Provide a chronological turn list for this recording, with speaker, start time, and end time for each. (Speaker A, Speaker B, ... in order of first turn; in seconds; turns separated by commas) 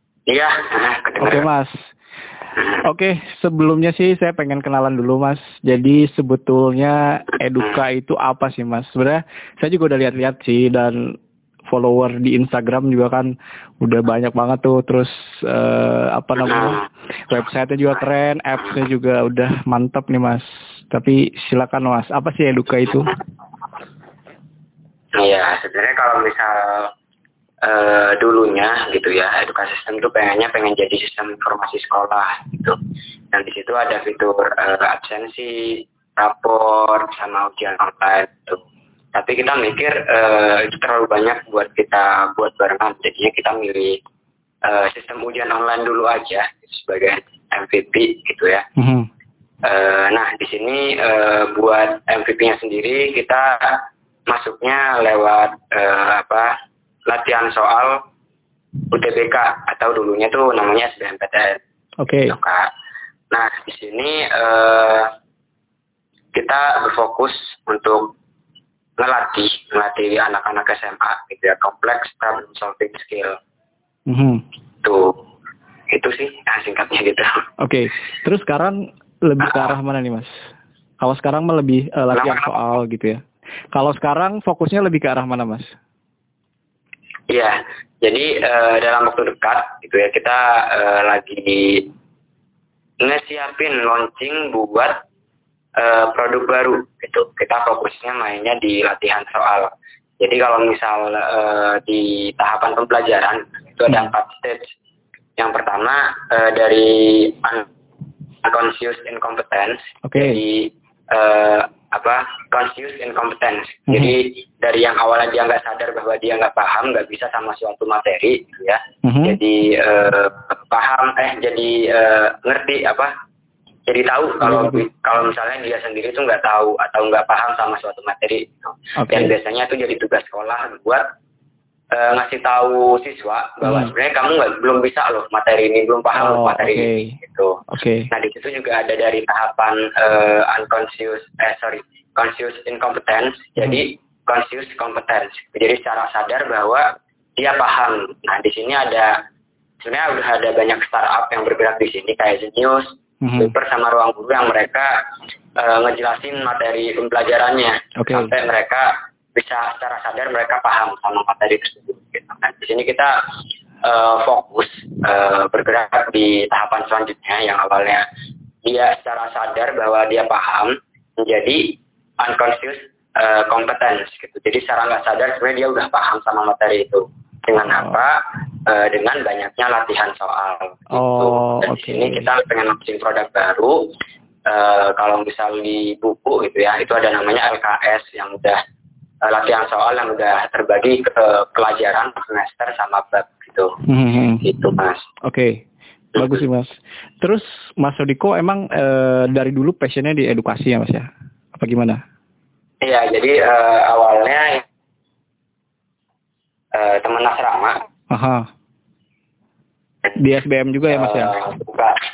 Speaker A: 0.3-1.5, Speaker B: 1.2-1.8, Speaker B: 2.8-11.2, Speaker B: 11.7-23.1, Speaker A: 16.4-16.8, Speaker A: 25.2-26.9, Speaker A: 27.6-32.8, Speaker A: 33.3-38.6, Speaker A: 39.1-44.0, Speaker A: 44.6-48.7, Speaker B: 48.8-49.1, Speaker A: 49.6-56.5, Speaker A: 57.1-58.0, Speaker A: 58.9-61.6, Speaker B: 62.0-62.4, Speaker A: 62.3-62.7, Speaker A: 63.3-65.1, Speaker A: 66.3-68.2, Speaker A: 69.0-73.4, Speaker B: 74.1-74.4, Speaker A: 74.8-75.2, Speaker A: 75.9-77.4, Speaker B: 77.6-80.3, Speaker A: 79.4-79.7, Speaker B: 81.0-83.2, Speaker A: 82.1-82.6, Speaker B: 83.7-85.7, Speaker A: 87.3-91.9, Speaker A: 93.0-95.0, Speaker A: 95.8-104.7, Speaker A: 105.4-107.7, Speaker A: 108.4-123.1, Speaker B: 110.0-110.4, Speaker B: 113.9-114.2, Speaker B: 119.0-119.4, Speaker A: 123.9-131.1, Speaker B: 124.4-124.9, Speaker B: 129.0-129.3, Speaker A: 131.9-149.2, Speaker B: 133.6-133.9, Speaker B: 136.2-137.2, Speaker B: 137.7-138.1, Speaker B: 143.6-143.8, Speaker A: 149.8-154.9, Speaker B: 153.2-153.5, Speaker A: 155.6-163.1, Speaker B: 158.0-158.3, Speaker A: 163.8-168.0, Speaker A: 168.7-183.9, Speaker B: 177.7-178.0, Speaker B: 180.9-182.3, Speaker A: 184.5-188.6, Speaker A: 189.2-193.8, Speaker B: 193.9-194.7, Speaker A: 194.4-195.1, Speaker B: 195.2-195.6, Speaker B: 196.2-202.0, Speaker A: 202.8-204.6, Speaker A: 206.7-207.8, Speaker B: 208.1-208.5, Speaker B: 210.2-211.4, Speaker A: 210.9-212.0